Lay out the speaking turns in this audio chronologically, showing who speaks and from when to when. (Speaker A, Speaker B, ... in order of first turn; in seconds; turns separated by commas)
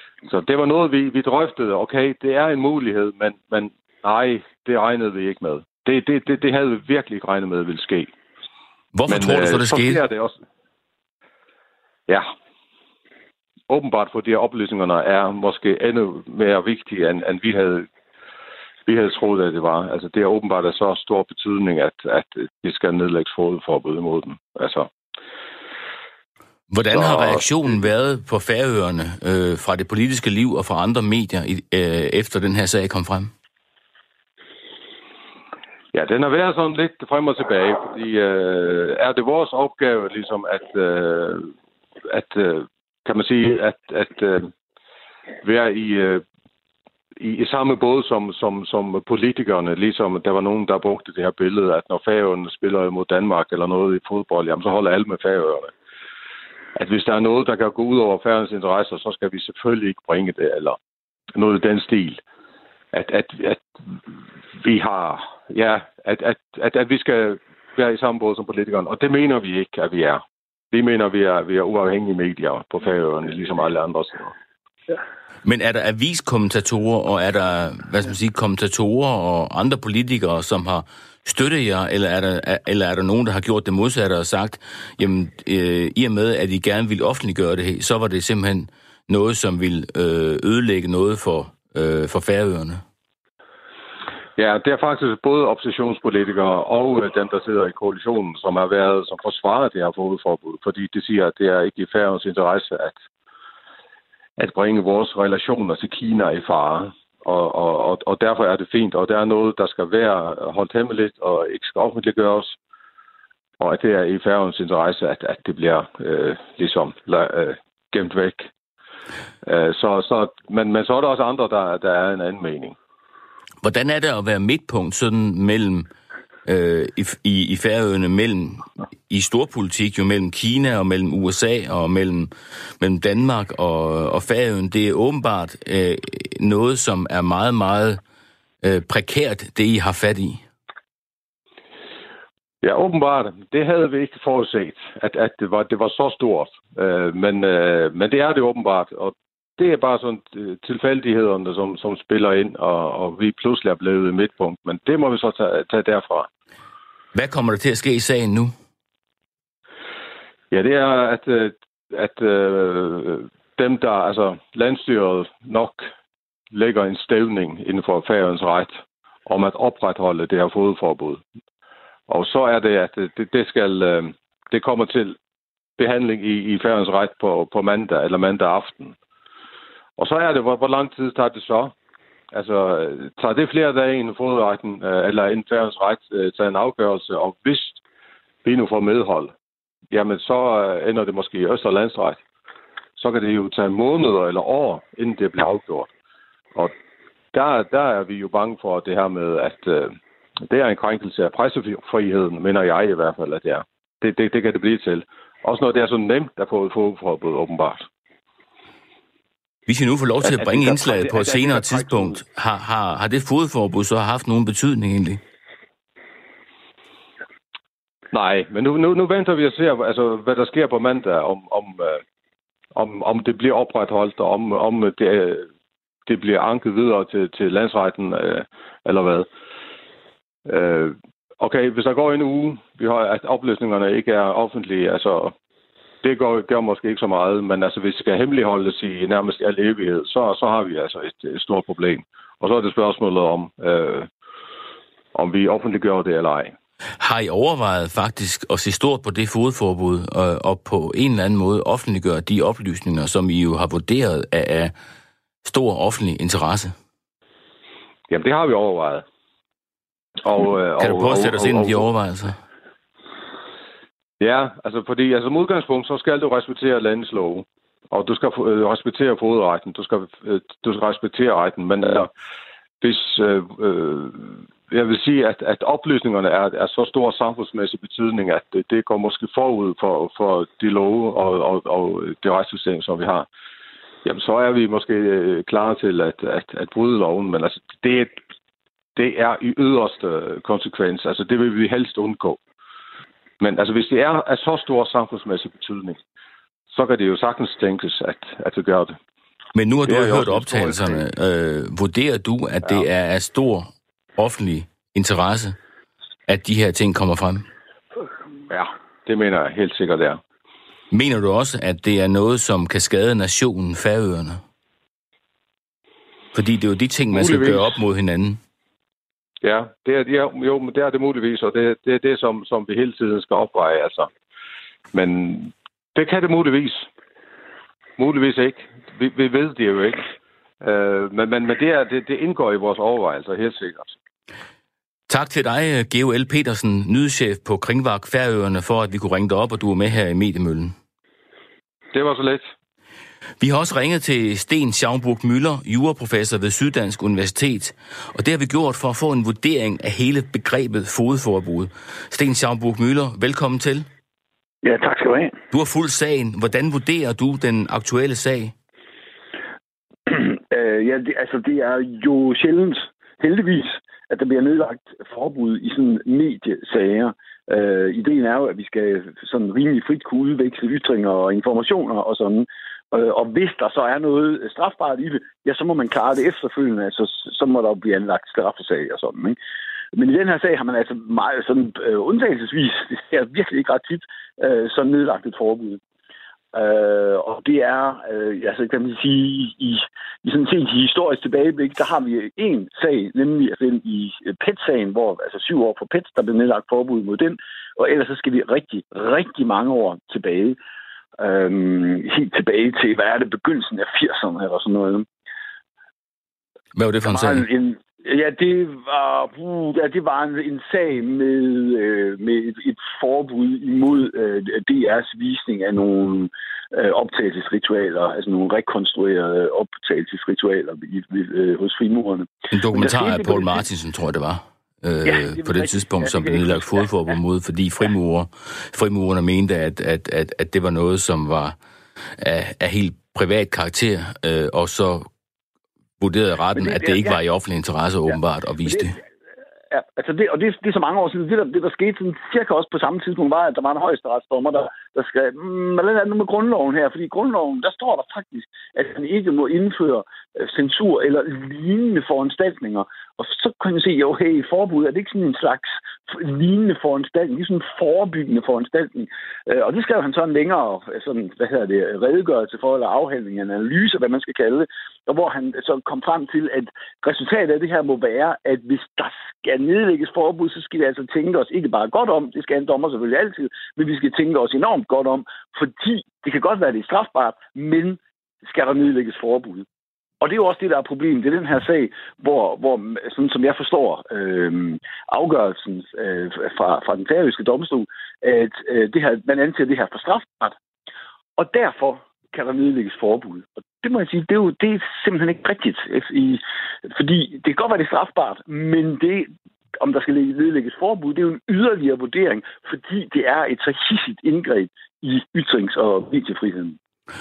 Speaker A: 0.2-8.1, Speaker B: 8.9-10.1, Speaker A: 9.1-10.3, Speaker A: 13.7-17.9, Speaker A: 18.9-24.9, Speaker B: 26.7-33.3, Speaker A: 26.9-27.5, Speaker A: 35.9-41.5, Speaker A: 42.0-44.5, Speaker A: 45.4-46.2, Speaker A: 47.2-55.7, Speaker A: 56.8-60.8, Speaker A: 61.3-62.2, Speaker A: 62.9-63.6, Speaker A: 64.6-74.3, Speaker B: 75.4-92.8, Speaker A: 94.4-103.0, Speaker A: 104.4-112.5, Speaker A: 113.6-118.5, Speaker A: 119.4-122.8, Speaker B: 123.6-125.9, Speaker B: 126.5-138.0, Speaker B: 138.6-140.4, Speaker A: 142.6-156.3, Speaker B: 157.1-158.5, Speaker A: 160.5-165.9, Speaker A: 166.5-171.2, Speaker A: 172.1-175.2, Speaker A: 175.8-178.9, Speaker A: 180.0-181.7, Speaker A: 182.3-187.8, Speaker A: 188.4-189.3, Speaker A: 189.9-192.2, Speaker A: 193.0-195.9, Speaker A: 197.3-207.9, Speaker B: 209.7-215.2, Speaker A: 210.3-212.2, Speaker A: 218.1-222.0, Speaker A: 222.8-225.5, Speaker A: 226.1-229.3, Speaker A: 230.4-235.3, Speaker A: 236.0-244.1, Speaker A: 245.1-246.5, Speaker B: 247.0-254.7, Speaker B: 255.4-256.7, Speaker A: 258.1-259.0, Speaker A: 260.2-261.8, Speaker B: 260.8-262.4, Speaker A: 264.2-272.1, Speaker A: 272.8-283.2, Speaker A: 284.0-288.1, Speaker A: 288.9-292.4, Speaker A: 293.4-296.0, Speaker A: 296.7-299.0, Speaker B: 299.5-305.6, Speaker A: 299.9-301.0, Speaker B: 306.3-307.5, Speaker A: 308.5-310.2, Speaker B: 310.9-314.4, Speaker B: 316.3-318.4, Speaker A: 317.1-317.6, Speaker A: 319.4-324.1, Speaker A: 324.9-326.9, Speaker A: 328.0-330.1, Speaker A: 330.6-333.9, Speaker B: 335.1-340.7, Speaker A: 341.9-342.5, Speaker B: 343.4-353.9, Speaker C: 354.6-355.3, Speaker B: 355.5-358.5, Speaker C: 360.1-379.4, Speaker C: 379.9-385.8, Speaker C: 386.5-400.6, Speaker C: 401.2-405.1, Speaker B: 406.7-407.4, Speaker C: 407.0-423.6, Speaker B: 422.5-431.6, Speaker C: 425.0-426.9, Speaker B: 432.2-435.1, Speaker B: 436.0-439.0, Speaker C: 436.5-437.2, Speaker C: 438.1-439.0, Speaker C: 439.7-479.6, Speaker C: 480.2-490.6, Speaker C: 491.4-499.3, Speaker C: 499.8-506.8